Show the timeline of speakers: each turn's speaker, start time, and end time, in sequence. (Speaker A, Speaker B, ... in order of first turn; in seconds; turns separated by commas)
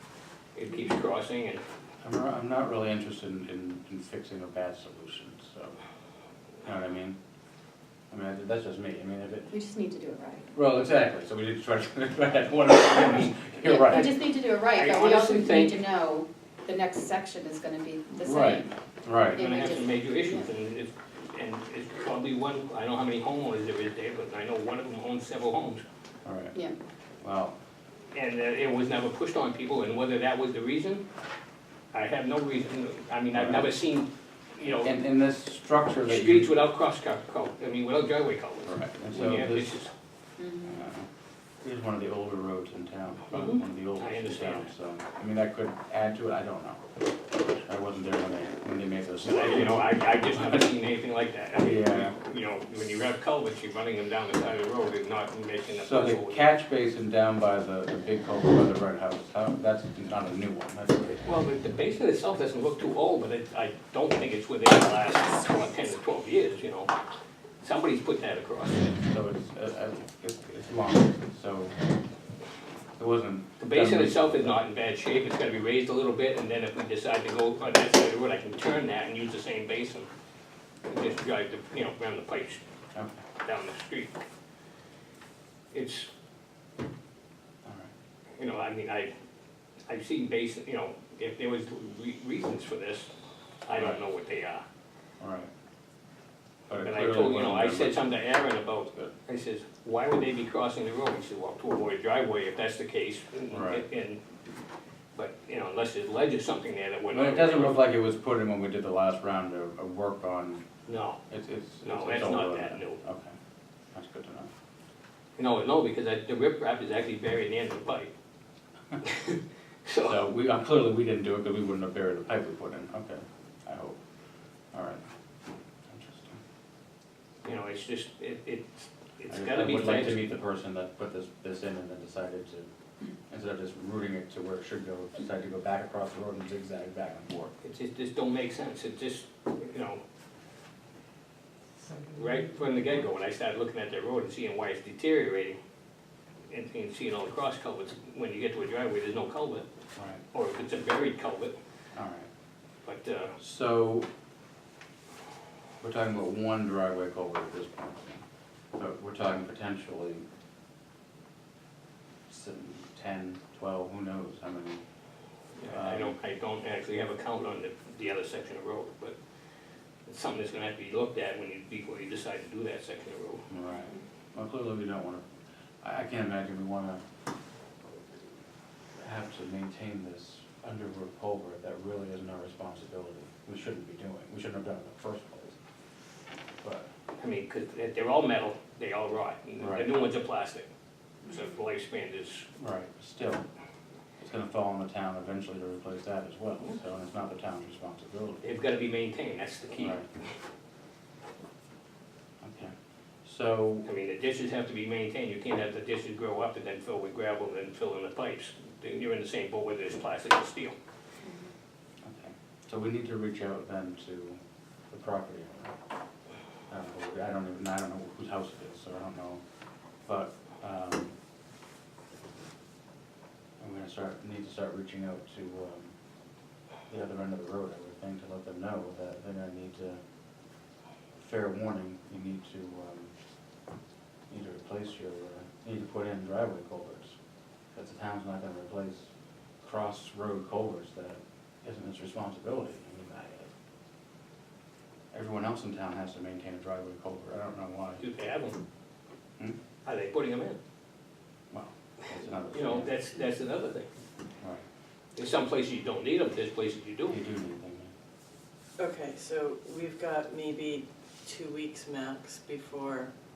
Speaker A: 0.6-1.6, Speaker B: 2.0-5.8, Speaker B: 6.6-7.2, Speaker B: 8.1-9.5, Speaker C: 9.5-10.5, Speaker B: 10.5-14.1, Speaker C: 13.6-18.7, Speaker A: 14.7-15.9, Speaker B: 18.2-19.4, Speaker C: 19.3-20.4, Speaker A: 19.3-25.8, Speaker B: 26.2-26.6, Speaker B: 27.2-27.5, Speaker A: 28.1-31.0, Speaker A: 31.9-34.9, Speaker B: 33.3-33.7, Speaker B: 34.8-36.5, Speaker A: 36.0-39.9, Speaker B: 38.6-39.8, Speaker C: 40.4-40.8, Speaker B: 40.6-41.1, Speaker B: 41.6-46.8, Speaker A: 43.3-44.7, Speaker B: 47.5-50.7, Speaker A: 49.2-56.4, Speaker B: 51.6-52.1, Speaker B: 55.7-61.2, Speaker A: 61.2-66.9, Speaker A: 67.6-69.0, Speaker B: 69.0-71.8, Speaker B: 73.0-74.6, Speaker A: 73.6-80.1, Speaker A: 80.9-82.6, Speaker A: 83.4-84.2, Speaker A: 85.7-86.1, Speaker B: 87.6-87.9, Speaker A: 88.3-89.1, Speaker A: 89.9-93.1, Speaker A: 93.6-94.6, Speaker B: 93.7-94.0, Speaker B: 95.2-95.5, Speaker B: 96.7-98.0, Speaker A: 96.8-104.2, Speaker B: 103.5-103.8, Speaker A: 105.1-107.8, Speaker B: 107.1-110.6, Speaker A: 110.8-111.2, Speaker B: 111.3-113.3, Speaker A: 111.8-113.0, Speaker B: 113.9-114.5, Speaker A: 115.4-118.1, Speaker A: 119.0-120.2, Speaker B: 120.0-124.0, Speaker B: 124.7-125.0, Speaker B: 125.9-126.4, Speaker A: 127.4-130.3, Speaker B: 129.3-132.7, Speaker B: 133.3-137.5, Speaker A: 137.6-140.0, Speaker A: 142.1-145.6, Speaker A: 146.5-149.7, Speaker B: 149.9-150.2, Speaker A: 150.3-151.6, Speaker B: 151.9-152.3, Speaker A: 152.8-153.3, Speaker B: 153.4-154.1, Speaker B: 155.8-158.2, Speaker B: 158.8-160.2, Speaker B: 162.3-164.8, Speaker A: 165.6-169.2, Speaker B: 165.7-166.1, Speaker A: 170.1-173.4, Speaker B: 173.5-175.2, Speaker B: 175.8-177.0, Speaker B: 179.0-185.6, Speaker B: 186.6-186.9, Speaker A: 187.2-190.7, Speaker B: 189.6-189.9, Speaker A: 191.2-192.4, Speaker B: 192.6-193.4, Speaker B: 194.2-198.4, Speaker A: 198.4-200.0, Speaker B: 199.8-200.1, Speaker B: 202.4-202.7, Speaker B: 203.2-203.9, Speaker A: 203.8-210.7, Speaker B: 212.0-215.7, Speaker B: 216.7-219.4, Speaker B: 220.1-221.1, Speaker B: 223.6-225.9, Speaker B: 226.9-230.0, Speaker B: 231.2-233.1, Speaker B: 234.3-237.1, Speaker B: 237.7-239.1, Speaker B: 239.6-243.5, Speaker B: 245.1-248.0, Speaker A: 248.0-248.6, Speaker A: 249.8-250.6, Speaker B: 251.5-252.9, Speaker A: 252.5-253.9, Speaker A: 255.2-257.2, Speaker B: 257.1-257.9, Speaker D: 258.8-263.1